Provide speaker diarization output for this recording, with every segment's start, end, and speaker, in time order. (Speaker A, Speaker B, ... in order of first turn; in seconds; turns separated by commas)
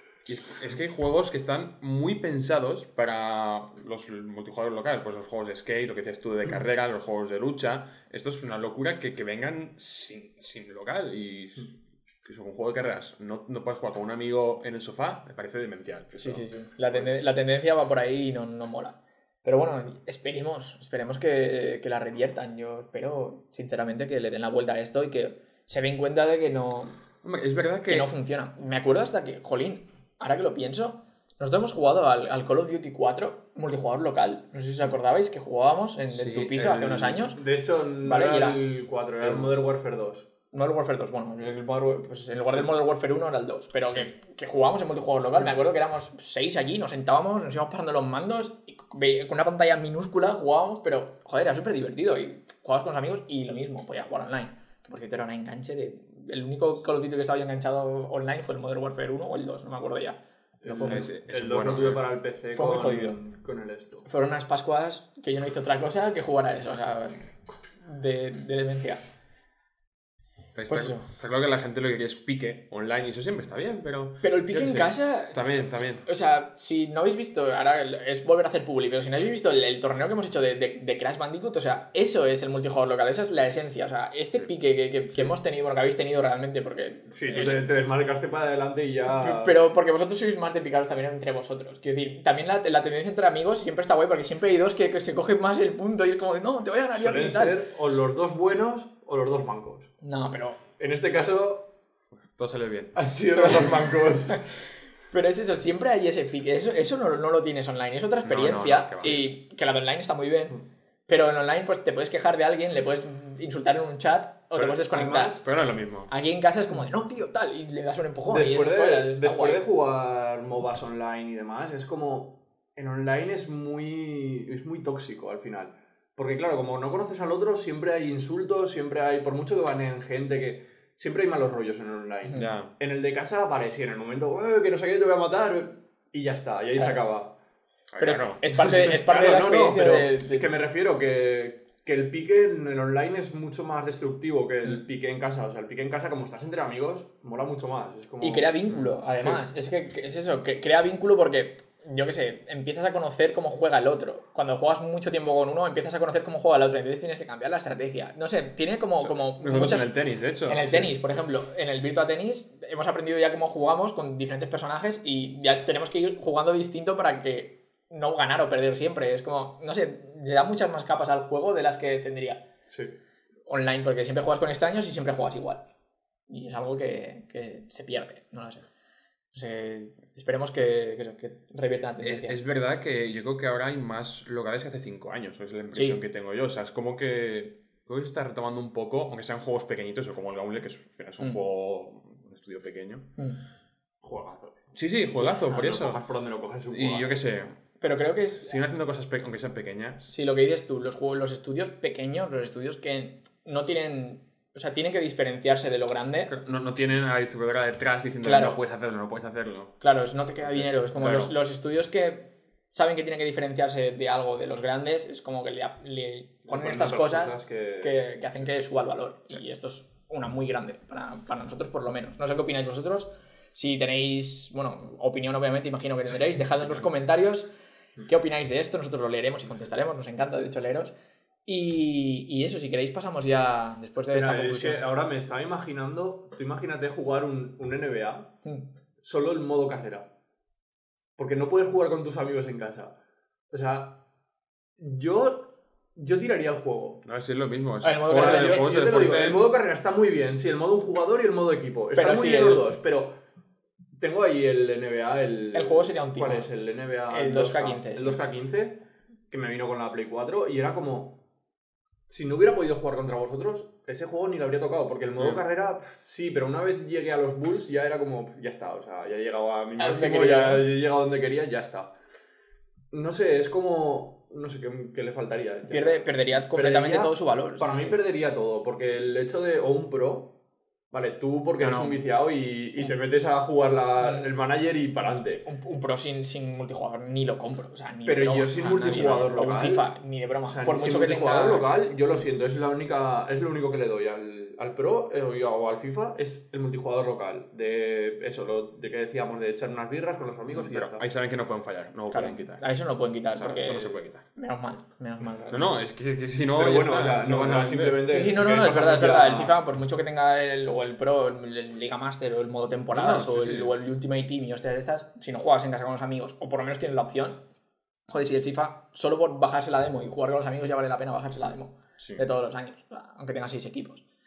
Speaker A: 0.3-16.5, Speaker B: 16.1-26.9, Speaker A: 27.2-28.1, Speaker B: 27.9-37.4, Speaker A: 36.1-37.2, Speaker C: 37.3-40.3, Speaker B: 38.0-38.6, Speaker A: 39.2-39.5, Speaker B: 40.5-61.0, Speaker C: 60.6-64.1, Speaker A: 60.8-62.0, Speaker B: 62.5-63.2, Speaker B: 64.1-67.2, Speaker B: 67.8-69.0, Speaker A: 70.5-76.0, Speaker B: 70.7-71.0, Speaker B: 74.2-87.6, Speaker C: 87.1-89.5, Speaker B: 89.2-97.6, Speaker C: 96.9-99.9, Speaker B: 100.0-100.6, Speaker C: 100.8-101.7, Speaker A: 102.3-103.0, Speaker C: 102.9-104.4, Speaker B: 103.3-103.7, Speaker B: 105.1-115.4, Speaker A: 108.2-109.2, Speaker C: 114.6-115.4, Speaker A: 115.3-116.1, Speaker B: 116.1-119.6, Speaker C: 118.3-137.3, Speaker A: 132.3-132.7, Speaker A: 137.9-138.8, Speaker B: 138.0-140.4, Speaker C: 138.7-148.6, Speaker B: 148.2-159.9, Speaker C: 149.1-149.4, Speaker A: 159.0-160.9, Speaker B: 160.5-172.4, Speaker C: 172.7-172.9, Speaker B: 173.5-175.6, Speaker B: 176.3-178.7, Speaker B: 179.3-182.4, Speaker A: 182.0-193.1, Speaker B: 185.7-186.0, Speaker C: 194.0-197.2, Speaker A: 194.7-196.0, Speaker A: 196.7-197.6, Speaker B: 197.8-198.6, Speaker A: 198.4-200.1, Speaker B: 200.1-206.3, Speaker A: 206.3-209.8, Speaker B: 208.2-208.6, Speaker B: 209.8-227.5, Speaker A: 210.4-211.3, Speaker C: 216.5-218.0, Speaker B: 228.1-230.9, Speaker B: 231.4-234.8, Speaker C: 234.1-238.3, Speaker C: 239.0-240.1, Speaker C: 241.2-242.9, Speaker C: 243.5-244.0, Speaker C: 244.8-247.0, Speaker A: 247.0-249.4, Speaker B: 247.8-249.3, Speaker C: 248.1-253.1, Speaker B: 251.9-252.7, Speaker C: 254.0-261.2, Speaker B: 255.5-256.5, Speaker B: 257.1-258.2, Speaker C: 262.1-271.9, Speaker B: 269.8-270.6, Speaker C: 272.9-280.3, Speaker B: 275.7-278.0, Speaker C: 280.9-285.4, Speaker B: 281.6-281.9, Speaker B: 284.0-284.3, Speaker B: 285.4-291.7, Speaker C: 288.0-289.9, Speaker A: 288.6-289.5, Speaker C: 290.4-301.1, Speaker A: 300.5-302.6, Speaker B: 302.1-305.7, Speaker A: 303.3-304.2, Speaker A: 305.5-308.0, Speaker C: 306.5-309.6, Speaker B: 308.1-317.4, Speaker A: 312.9-313.7, Speaker B: 318.1-324.0, Speaker A: 322.0-322.2